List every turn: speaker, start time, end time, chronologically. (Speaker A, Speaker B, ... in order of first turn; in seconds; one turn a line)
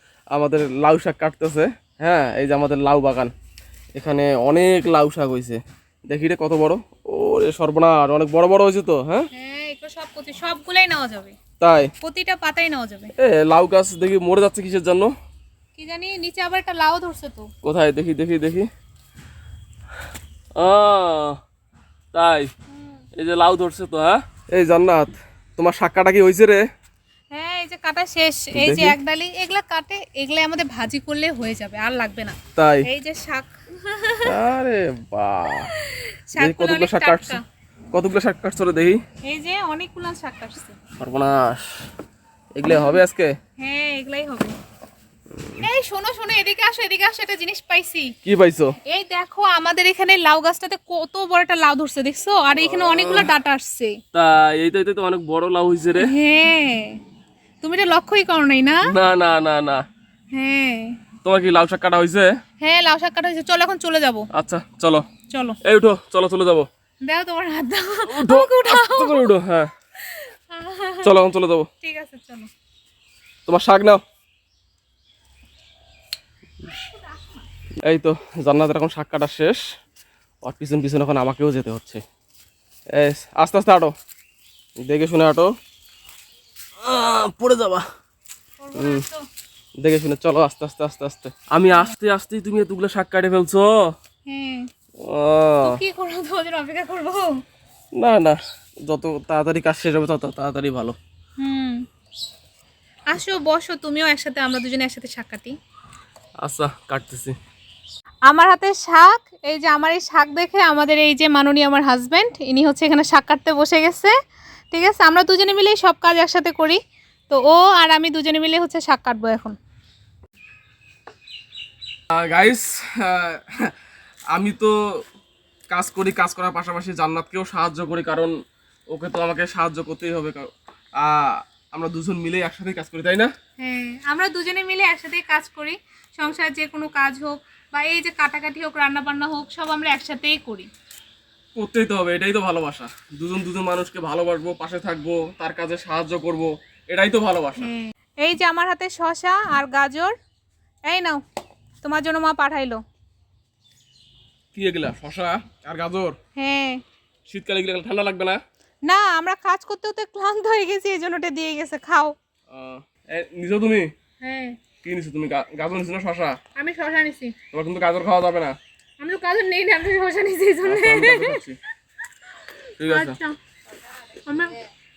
Speaker A: 0.3-3.3
Speaker A: 4.0-9.3
Speaker B: 9.3-11.4
Speaker A: 11.6-11.9
Speaker B: 12.0-13.1
Speaker A: 13.2-15.1
Speaker B: 15.8-17.5
Speaker A: 17.6-18.7
Speaker A: 20.6-21.4
Speaker A: 22.1-22.5
Speaker B: 22.7-23.0
Speaker A: 23.2-26.7
Speaker B: 27.3-34.4
Speaker A: 28.6-29.0
Speaker A: 32.6-32.9
Speaker A: 34.2-35.7
Speaker B: 35.7-37.4
Speaker A: 36.4-37.4
Speaker A: 37.9-39.0
Speaker B: 39.2-40.8
Speaker A: 41.0-41.8
Speaker A: 42.5-43.3
Speaker B: 42.6-43.0
Speaker B: 43.6-44.6
Speaker B: 45.6-48.1
Speaker A: 48.2-48.8
Speaker B: 48.9-54.0
Speaker A: 52.6-53.3
Speaker A: 54.1-56.1
Speaker B: 56.0-57.0
Speaker B: 57.6-58.9
Speaker A: 58.8-59.8
Speaker B: 60.3-61.0
Speaker A: 61.2-62.3
Speaker B: 62.6-64.3
Speaker A: 64.3-65.1
Speaker B: 65.3-65.6
Speaker A: 65.6-66.7
Speaker B: 67.0-69.3
Speaker A: 68.1-69.7
Speaker B: 70.0-71.1
Speaker A: 71.0-71.7
Speaker B: 71.8-72.5
Speaker A: 73.5-74.0
Speaker A: 77.8-79.6
Speaker A: 80.4-82.0
Speaker A: 83.0-83.9
Speaker A: 84.9-85.5
Speaker A: 86.8-87.8
Speaker B: 88.6-89.2
Speaker A: 88.8-89.0
Speaker A: 89.8-93.8
Speaker B: 94.3-94.7
Speaker A: 95.0-95.8
Speaker B: 95.6-97.4
Speaker A: 98.0-101.0
Speaker B: 101.4-101.8
Speaker B: 103.1-105.6
Speaker A: 106.4-107.4
Speaker B: 108.3-114.1
Speaker B: 114.7-116.8
Speaker B: 117.3-119.6
Speaker A: 122.1-123.8
Speaker A: 124.3-124.8
Speaker A: 125.7-128.3
Speaker A: 128.9-133.3
Speaker B: 133.6-140.7
Speaker A: 141.6-147.7
Speaker B: 147.6-150.2
Speaker B: 150.9-151.2
Speaker B: 151.8-152.8
Speaker A: 154.5-156.2
Speaker B: 156.4-156.8
Speaker A: 157.3-158.4
Speaker B: 158.9-162.2
Speaker A: 162.5-163.9
Speaker B: 164.2-164.6
Speaker A: 164.8-166.4
Speaker B: 166.6-167.4
Speaker A: 167.5-168.6
Speaker B: 169.0-171.4
Speaker A: 170.6-171.6
Speaker A: 172.8-173.2
Speaker B: 172.8-173.4
Speaker B: 174.2-174.6